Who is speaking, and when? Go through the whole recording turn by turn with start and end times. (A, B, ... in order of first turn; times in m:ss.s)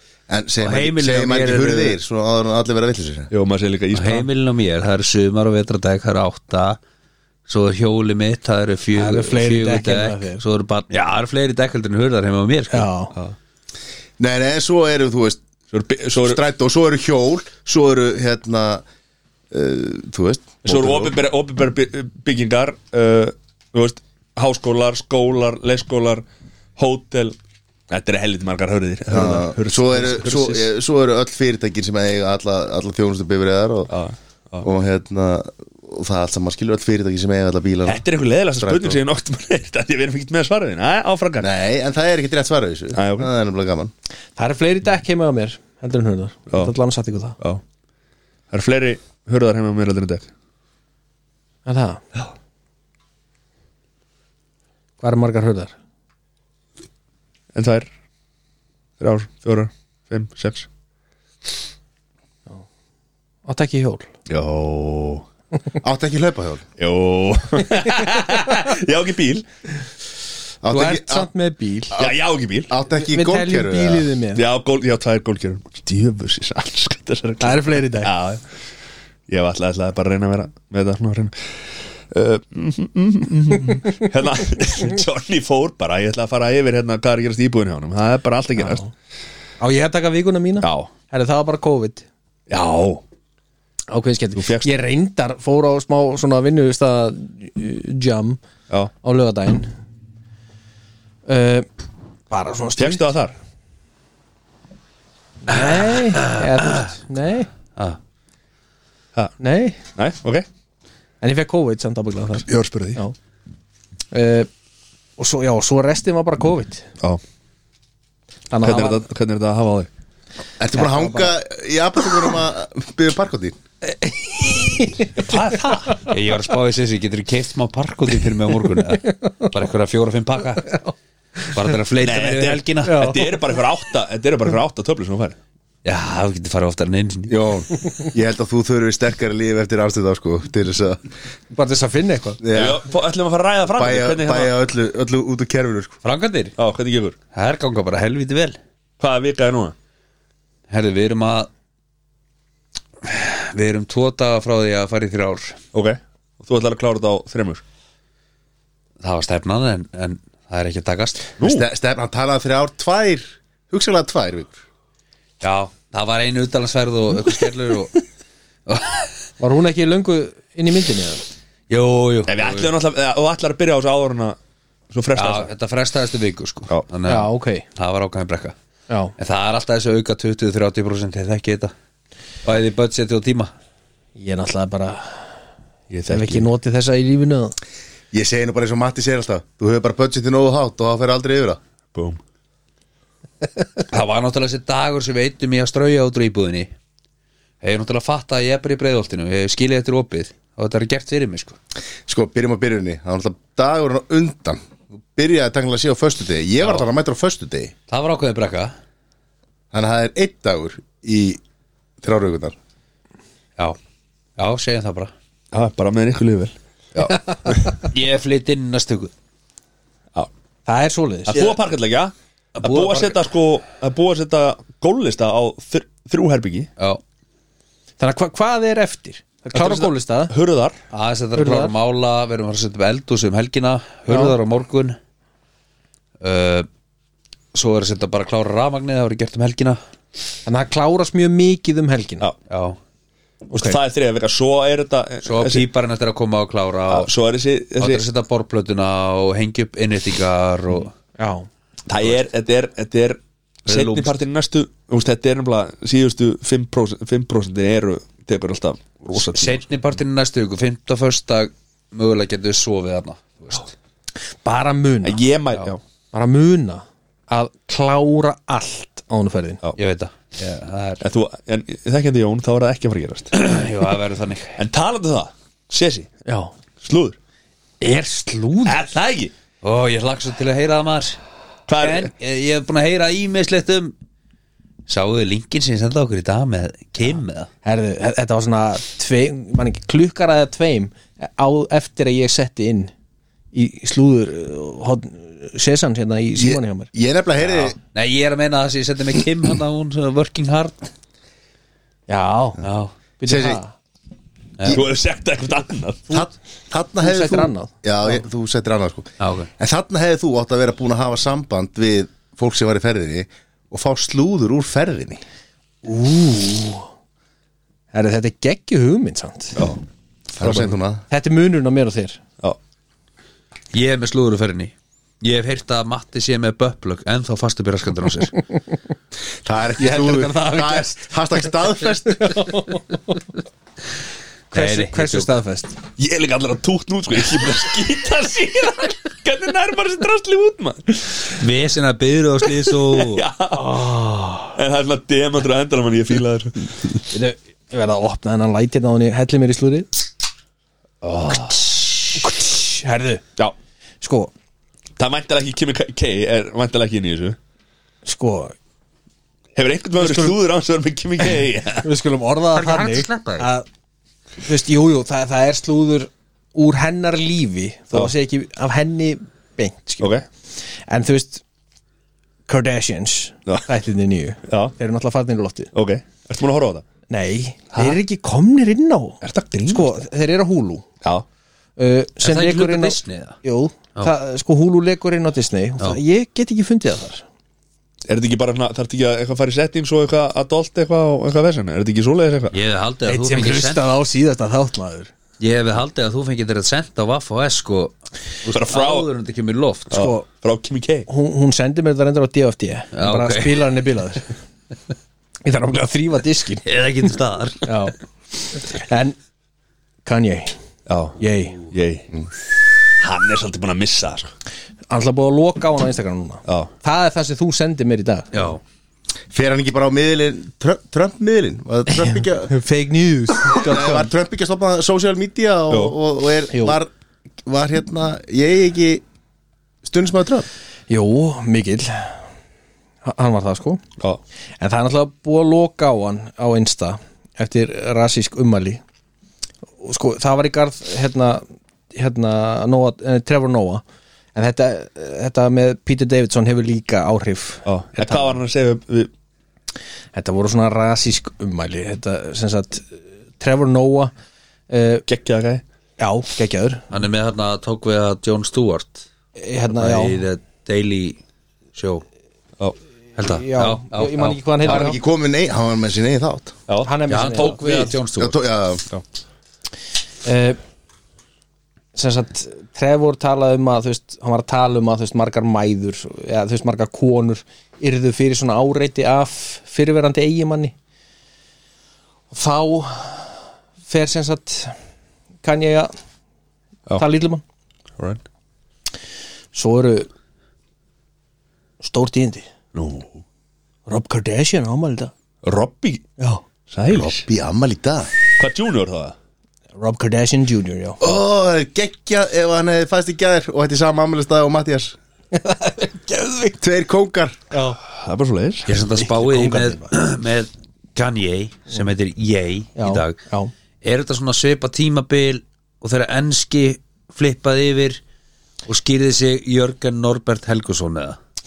0:00.3-0:03.3 A
0:00.6-0:02.0 B
0:03.3-0:04.3 C
0:03.9-0:06.8 B
0:07.5-0:12.9 B
0:08.9-0:10.4 D
0:12.7-0:13.1 D
0:14.2-0:15.4 A
0:15.7-0:16.4 C
0:16.2-0:18.8 A
0:19.5-0:21.2 A
0:20.6-0:26.2 C
0:26.8-0:27.4 C
0:27.9-0:30.7 C
0:29.1-0:33.9 A
0:33.9-0:34.7 C
0:34.6-0:38.0 A
0:37.8-0:41.5 C
0:38.6-0:39.0 A
0:41.4-0:43.9 A
0:42.9-0:43.3 C
0:44.4-0:47.4 D
0:48.5-0:50.3 C
0:51.6-0:52.0 D
0:55.0-0:55.7 D
0:57.5-0:57.9 C
0:59.0-1:00.7 C
1:03.4-1:04.1 D
1:04.3-1:05.2 C
1:05.8-1:06.6 A
1:06.8-1:09.4 C
1:10.6-1:11.3 A
1:10.7-1:11.9 D
1:11.9-1:14.1 A
1:12.0-1:12.7 C
1:13.0-1:14.4 D
1:14.3-1:18.4 C
1:17.4-1:18.1 D
1:19.3-1:21.3 C
1:22.1-1:28.9 C
1:28.6-1:28.9 D
1:29.6-1:32.0 D
1:30.6-1:30.9 C
1:32.5-1:33.0 C
1:33.9-1:38.4 D
1:34.4-1:34.7 C
1:39.0-1:39.7 D
1:41.2-1:41.7 D
1:42.3-1:43.0 D
1:42.8-1:43.3 C
1:45.4-1:47.5 D
1:46.1-1:46.4 B
1:49.4-1:49.8 D
1:50.0-1:50.4 C
1:51.2-1:53.1 D
1:52.5-1:53.0 C
1:54.1-1:54.5 D
1:55.2-1:56.8 D
1:58.5-1:59.0 D
1:58.6-1:59.9 C
2:00.6-2:03.6 A
2:00.7-2:01.3 D
2:03.9-2:06.1 D
2:05.2-2:06.0 C
2:06.0-2:10.8 B
2:11.5-2:13.1 B
2:12.0-2:15.4 C
2:12.8-2:13.4 D
2:15.8-2:17.3 B
2:17.3-2:21.0 A
2:21.5-2:22.4 D
2:22.4-2:22.8 A
2:22.5-2:24.5 C
2:23.7-2:26.0 A
2:26.0-2:26.5 B
2:26.6-2:27.2 C
2:27.3-2:28.6 B
2:29.0-2:29.7 C
2:30.7-2:31.5 B
2:33.0-2:35.6 B
2:35.7-2:37.6 C
2:39.0-2:41.3 B
2:41.4-2:41.6 C
2:41.4-2:44.6 A
2:45.4-2:48.0 B
2:48.7-2:49.1 B
2:49.4-2:51.2 D
2:51.7-2:52.7 B
2:52.3-2:54.4 C
2:54.9-2:55.5 C
2:55.2-2:58.5 B
2:57.0-2:57.6 D
2:58.9-2:59.1 D
2:59.2-3:01.7 B
3:02.4-3:03.5 B
3:04.2-3:05.3 D
3:05.9-3:06.5 C
3:06.1-3:07.5 D
3:08.1-3:11.6 A
3:11.9-3:12.2 C
3:13.9-3:16.7 B
3:17.6-3:21.6 B
3:22.1-3:24.6 A
3:25.1-3:27.7 A
3:27.9-3:28.7 B
3:29.7-3:31.4 A
3:32.0-3:32.6 A
3:34.4-3:35.1 B
3:35.5-3:37.8 C
3:37.8-3:39.1 B
3:40.6-3:41.5 D
3:41.3-3:46.7 C
3:42.6-3:43.1 B
3:48.0-3:50.3 D
3:49.5-3:50.8 C
3:50.9-3:55.0 B
3:51.4-3:51.7 D
3:54.1-3:54.3 D
3:56.2-3:56.7 B
3:57.5-3:59.8 B
4:00.4-4:02.2 D
4:02.5-4:02.8 B
4:03.5-4:05.6 C
4:05.2-4:07.1 B
4:06.9-4:08.0 C
4:07.8-4:10.9 B
4:11.2-4:11.5 D
4:11.9-4:19.6 C
4:13.6-4:14.2 B
4:19.1-4:23.7 B
4:24.4-4:25.2 D
4:25.0-4:25.8 C
4:26.1-4:29.6 D
4:29.8-4:31.0 B
4:31.0-4:33.3 C
4:33.3-4:34.6 B
4:34.6-4:36.1 C
4:36.2-4:36.5 D
4:36.8-4:37.2 C
4:37.8-4:38.8 D
4:38.6-4:39.3 C
4:39.6-4:41.2 B
4:41.7-4:42.1 C
4:41.8-4:43.9 B
4:44.9-4:47.5 B
4:47.6-4:52.9 D
4:53.5-4:56.9 D
4:56.3-4:57.8 A
4:57.9-5:00.8 B
5:02.1-5:02.6 D
5:02.6-5:02.9 B
5:03.2-5:03.7 D
5:03.2-5:03.6 A
5:04.7-5:06.1 C
5:06.1-5:15.2 A
5:07.0-5:08.2 D
5:09.2-5:09.5 B
5:15.8-5:16.9 D
5:17.9-5:19.6 D
5:20.4-5:21.0 A
5:20.4-5:20.7 C
5:21.1-5:22.2 D
5:23.7-5:28.3 B
5:29.4-5:32.4 A
5:29.8-5:31.5 D
5:32.1-5:33.3 D
5:34.5-5:35.3 B
5:34.5-5:35.8 D
5:36.0-5:41.4 C
5:41.3-5:43.2 B
5:42.5-5:43.9 C
5:43.5-5:44.6 D
5:44.5-5:46.8 C
5:47.1-5:49.9 D
5:51.0-5:51.6 C
5:52.1-5:53.2 D
5:54.0-5:54.3 D
5:55.0-5:57.4 C
5:58.0-5:58.5 D
5:59.5-6:01.9 C
6:00.0-6:00.3 D
6:01.8-6:03.6 D
6:02.5-6:03.5 B
6:04.4-6:10.1 D
6:10.0-6:10.2 C
6:10.9-6:11.4 D
6:12.5-6:15.7 D
6:14.5-6:14.7 C
6:15.7-6:16.8 C
6:17.1-6:20.8 D
6:17.7-6:18.0 C
6:19.2-6:19.9 C
6:21.8-6:27.2 D
6:22.2-6:23.4 B
6:28.1-6:32.5 C
6:32.5-6:33.8 B
6:33.1-6:35.1 D
6:35.4-6:40.0 B
6:38.5-6:39.1 C
6:39.9-6:41.1 C
6:39.9-6:40.2 D
6:41.1-6:44.2 D
6:42.9-6:43.7 B
6:45.4-6:46.6 D
6:46.6-6:47.7 B
6:47.6-6:49.2 D
6:50.0-6:50.5 D
6:50.9-6:52.0 C
6:51.2-6:51.6 D
6:53.0-6:54.3 C
6:54.9-6:58.3 D
6:58.3-6:58.6 B
6:59.3-7:02.5 A
7:02.0-7:04.1 D
7:03.5-7:06.9 A
7:05.7-7:06.0 C
7:06.5-7:06.8 D
7:07.4-7:09.0 A
7:09.8-7:10.5 A
7:10.9-7:12.2 D
7:13.0-7:13.8 D
7:14.6-7:18.8 D
7:19.8-7:23.8 D
7:24.3-7:28.4 D
7:27.6-7:29.1 C
7:30.1-7:34.1 D
7:34.7-7:35.0 D
7:35.1-7:35.6 C
7:36.0-7:36.8 D
7:36.9-7:39.1 B
7:39.4-7:40.2 D
7:39.7-7:41.2 B
7:41.7-7:42.0 B
7:43.2-7:44.9 B
7:43.2-7:45.0 D
7:44.6-7:46.6 A
7:46.7-7:47.8 C
7:46.8-7:47.9 D
7:47.1-7:48.4 B
7:48.2-7:48.8 A
7:50.2-7:50.6 D
7:51.9-8:00.7 D
8:02.3-8:03.3 D
8:03.9-8:04.7 D
8:05.4-8:05.9 D
8:07.0-8:07.4 D
8:09.5-8:10.1 D
8:11.8-8:12.5 D
8:12.7-8:13.2 C
8:13.9-8:15.1 D
8:15.4-8:16.0 C
8:16.7-8:17.2 C
8:16.9-8:18.1 A
8:18.4-8:19.1 C
8:19.8-8:21.2 D
8:21.0-8:25.0 A
8:25.3-8:26.6 D
8:26.6-8:27.4 A
8:27.5-8:27.8 D
8:27.9-8:28.7 C
8:28.7-8:33.2 B
8:28.7-8:29.9 D
8:32.8-8:33.5 D
8:33.8-8:38.0 B
8:38.7-8:41.2 B